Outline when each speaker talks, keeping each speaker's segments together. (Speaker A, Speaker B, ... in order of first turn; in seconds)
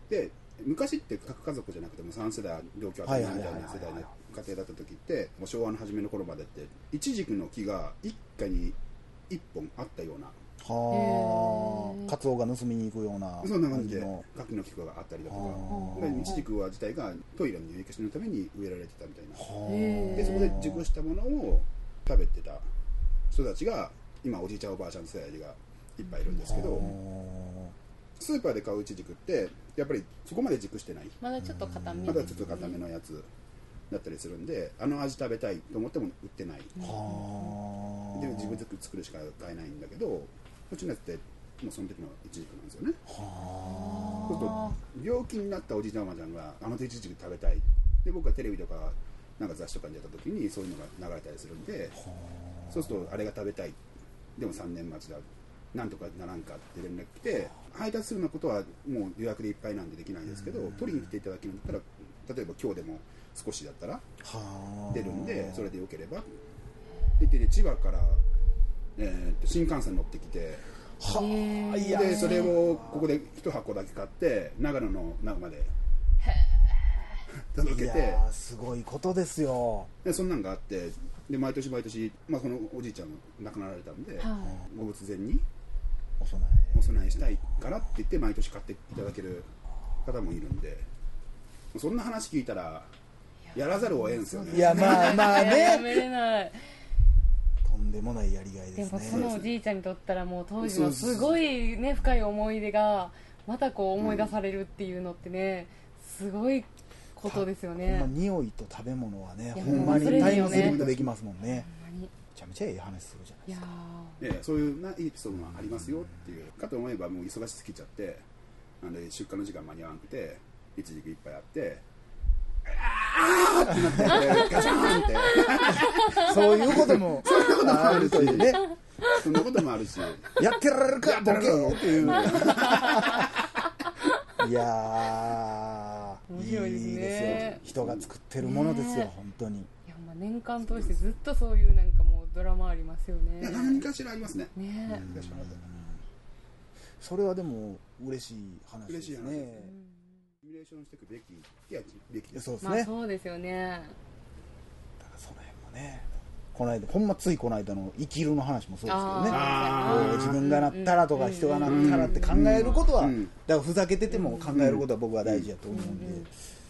Speaker A: 0.1-8.8, 9.3-10.4, 13.4-19.5, 20.1-22.7, 23.3-26.9, 28.2-31.2, 32.0-33.3, 33.9-36.7, 38.1-43.0, 44.3-52.0, 52.7-53.8, 54.4-64.0, 64.9-66.3, 67.2-68.2, 69.0-70.7, 71.9-75.7, 77.5-78.2, 80.0-85.5, 86.7-89.5, 90.0-90.9, 91.7-92.9, 93.5-95.7, 99.1-99.6, 100.6-101.4, 104.0-104.4, 109.6-111.1, 114.2-118.2, 118.8-121.8, 122.7-133.4, 137.2-138.1, 140.6-141.2, 143.4-145.6, 148.9-149.7, 150.4-152.5, 159.2-160.4, 161.7-163.3, 164.5-165.5
Speaker B: 3.0-4.1, 10.6-14.2, 15.3-16.4, 19.4-20.9, 26.4-27.7, 31.4-32.4, 36.8-38.6, 43.1-44.8, 52.0-53.1, 60.3-61.1, 64.2-65.7, 71.0-73.1, 77.6-79.9, 86.2-87.2, 94.5-96.1, 97.6-99.3, 107.2-111.7, 112.3-113.7, 123.7-124.4, 126.2-128.7, 130.4-133.3, 134.4-139.7, 144.9-146.0, 147.0-149.7, 152.3-152.9, 155.0-166.3
Speaker C: 10.9-12.1, 15.7-16.4, 19.7-20.6, 26.2-27.0, 31.2-32.8, 36.8-37.6, 43.6-44.8, 71.1-72.6, 76.3-76.9, 84.2-84.6, 93.5-96.6, 98.8-108.1, 109.5-110.8, 111.5-112.1, 113.5-114.2, 126.1-126.4, 132.2-133.4, 136.3-137.6, 138.4-139.1, 139.9-143.9, 144.6-145.1, 149.5-150.1, 152.6-154.0, 158.8-162.9, 164.1-164.6, 165.7-166.3